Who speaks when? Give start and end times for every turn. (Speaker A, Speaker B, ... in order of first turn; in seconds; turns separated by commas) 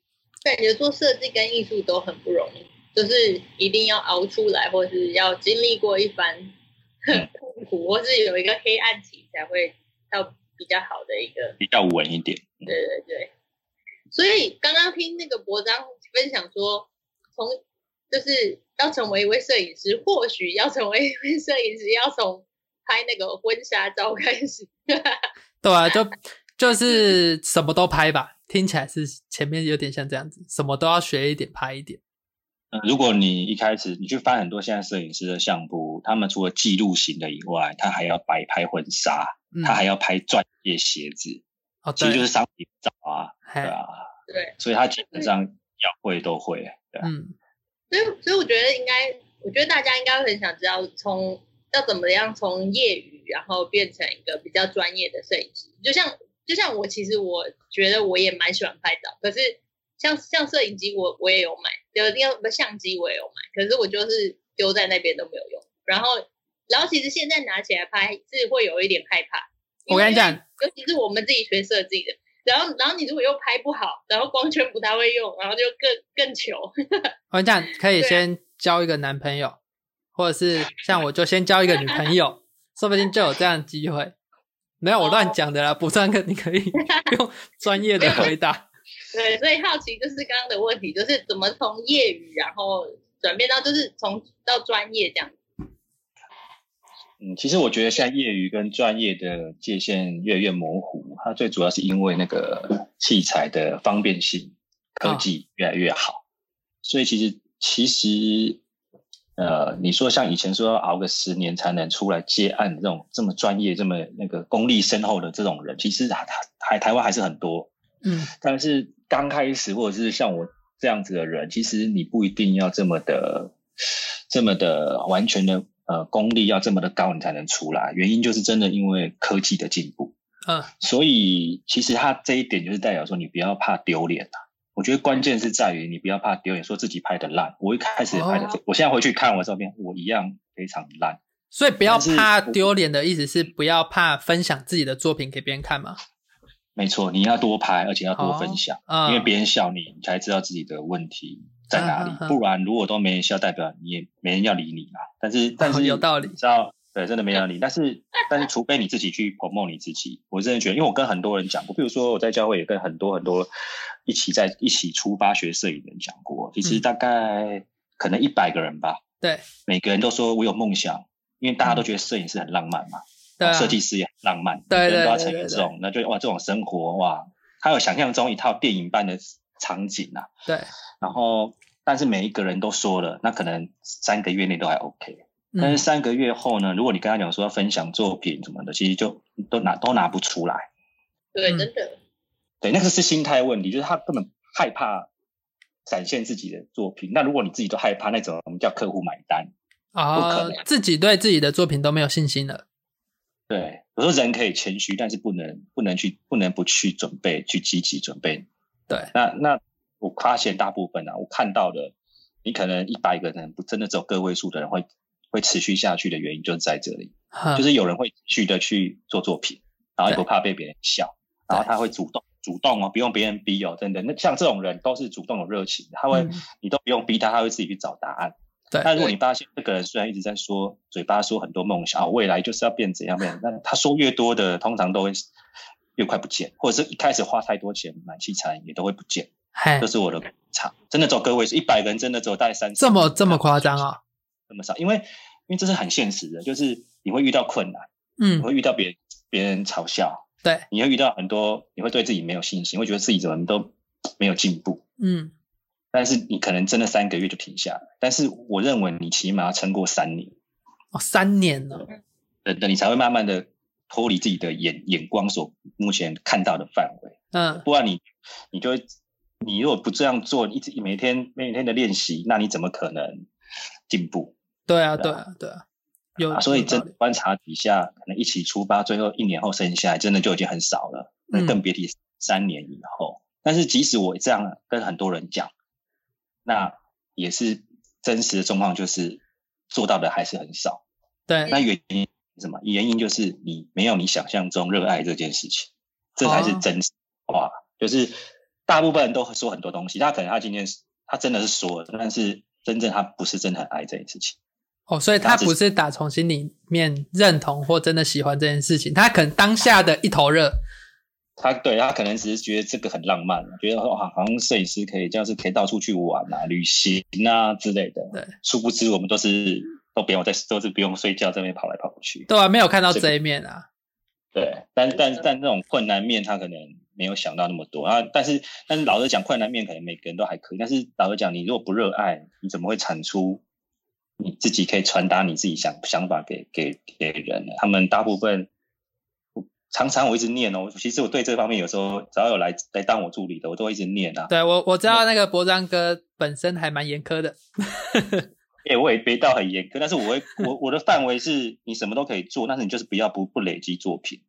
Speaker A: 0.4-6.5, Speaker A: 7.1-11.6, Speaker B: 11.6-12.7, Speaker A: 12.7-13.3, Speaker A: 14.1-17.6, Speaker A: 18.1-25.2, Speaker C: 25.6-32.0, Speaker B: 32.7-41.4, Speaker C: 39.5-39.8, Speaker C: 41.8-42.2, Speaker B: 42.0-44.1, Speaker C: 43.5-43.7, Speaker A: 44.3-44.5, Speaker B: 44.6-47.1, Speaker C: 47.0-47.3, Speaker A: 47.9-77.1, Speaker C: 69.9-70.4, Speaker C: 77.3-79.6, Speaker C: 80.2-84.1, Speaker C: 84.8-88.7, Speaker A: 85.0-85.3, Speaker A: 86.8-87.1, Speaker A: 88.0-88.3, Speaker A: 89.1-95.3, Speaker B: 97.2-106.2, Speaker B: 106.8-108.6, Speaker B: 109.4-117.7, Speaker C: 118.0-118.3, Speaker B: 118.3-130.1, Speaker C: 130.4-130.7, Speaker B: 130.8-141.2, Speaker C: 138.1-138.6, Speaker C: 141.5-146.0, Speaker B: 141.8-142.7, Speaker B: 146.8-163.5, Speaker C: 148.1-149.3, Speaker C: 151.7-152.4, Speaker C: 155.6-156.4, Speaker B: 164.0-169.0, Speaker B: 169.7-180.3, Speaker C: 173.4-173.8, Speaker C: 174.7-175.7, Speaker B: 181.0-190.7, Speaker C: 185.5-185.8, Speaker A: 191.3-191.9, Speaker B: 192.6-195.1, Speaker B: 195.8-199.5, Speaker C: 199.9-202.6, Speaker B: 200.1-200.6, Speaker B: 203.5-208.5, Speaker B: 209.1-211.9, Speaker B: 212.4-235.2, Speaker C: 217.3-217.7, Speaker C: 226.1-226.4, Speaker C: 228.7-229.1, Speaker B: 235.9-243.9, Speaker C: 239.5-239.9, Speaker C: 242.8-244.0, Speaker B: 244.5-247.8, Speaker C: 248.2-248.5, Speaker B: 248.4-254.8, Speaker C: 255.0-255.3, Speaker B: 255.9-260.3, Speaker C: 260.9-261.9, Speaker B: 262.4-268.8, Speaker C: 267.3-267.6, Speaker B: 269.4-273.2, Speaker B: 273.9-274.3, Speaker C: 274.7-275.6, Speaker C: 276.2-276.9, Speaker B: 276.3-285.5, Speaker C: 281.3-281.6, Speaker B: 286.4-290.8, Speaker B: 291.5-298.1, Speaker C: 296.2-296.6, Speaker B: 298.7-304.4, Speaker C: 304.9-310.6, Speaker B: 305.2-305.5, Speaker B: 311.4-322.3, Speaker C: 322.3-323.6, Speaker B: 324.3-333.4, Speaker B: 334.2-338.5, Speaker B: 339.4-344.3, Speaker C: 344.3-348.3, Speaker B: 348.6-354.2